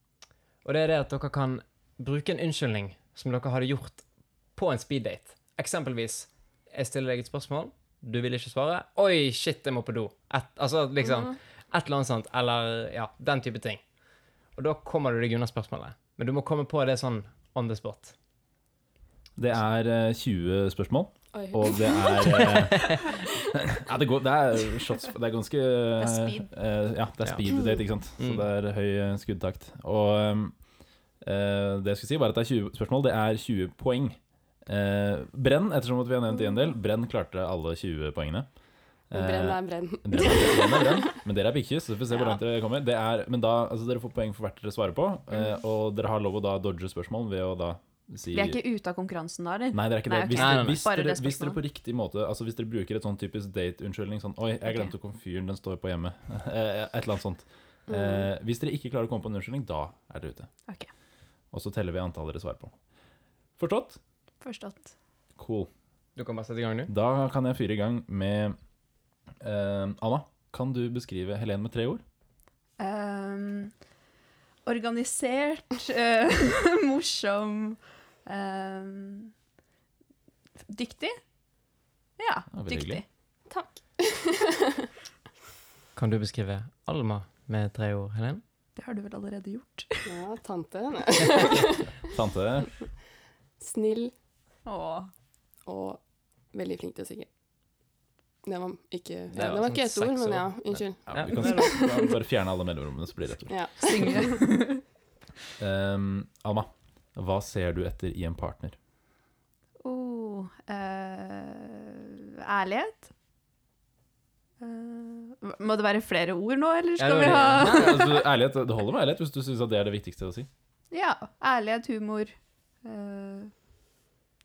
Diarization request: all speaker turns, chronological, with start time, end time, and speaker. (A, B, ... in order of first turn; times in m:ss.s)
0:00.6-0:04.0 A
0:04.6-0:13.8 A
0:14.6-0:18.1 A
0:19.4-0:30.6 B
0:21.3-0:22.8 C
0:26.0-0:26.5 D
0:28.2-0:28.5 A
0:31.2-0:38.5 B
0:39.1-0:48.6 B
0:39.1-0:41.1 C
0:48.3-0:51.6 D
0:49.7-1:00.5 B
0:50.3-0:50.8 A
0:54.7-0:54.9 D
0:57.9-0:58.3 C
1:01.5-1:02.7 B
1:03.6-1:04.0 B
1:04.4-1:04.9 D
1:05.4-1:05.7 B
1:06.2-1:06.9 A
1:06.9-1:08.6 B
1:09.4-1:12.0 B
1:12.8-1:13.7 D
1:14.7-1:19.3 D
1:20.7-1:21.2 D
1:22.2-1:23.0 D
1:22.5-1:23.0 B
1:23.5-1:24.9 C
1:26.0-1:28.4 A
1:28.8-1:30.1 D
1:30.1-1:32.1 C
1:32.1-1:32.7 B
1:33.6-1:34.1 C
1:34.7-1:35.1 D
1:35.7-1:36.0 C
1:36.5-1:37.3 C
1:38.4-1:42.2 C
1:39.3-1:41.8 A
1:41.1-1:43.8 B
1:43.5-1:44.4 C
1:43.8-1:44.8 D
1:45.6-1:48.8 B
1:49.8-1:53.1 D
1:54.6-1:58.1 D
1:57.0-1:58.0 A
1:57.2-2:00.5 B
2:00.9-2:03.5 D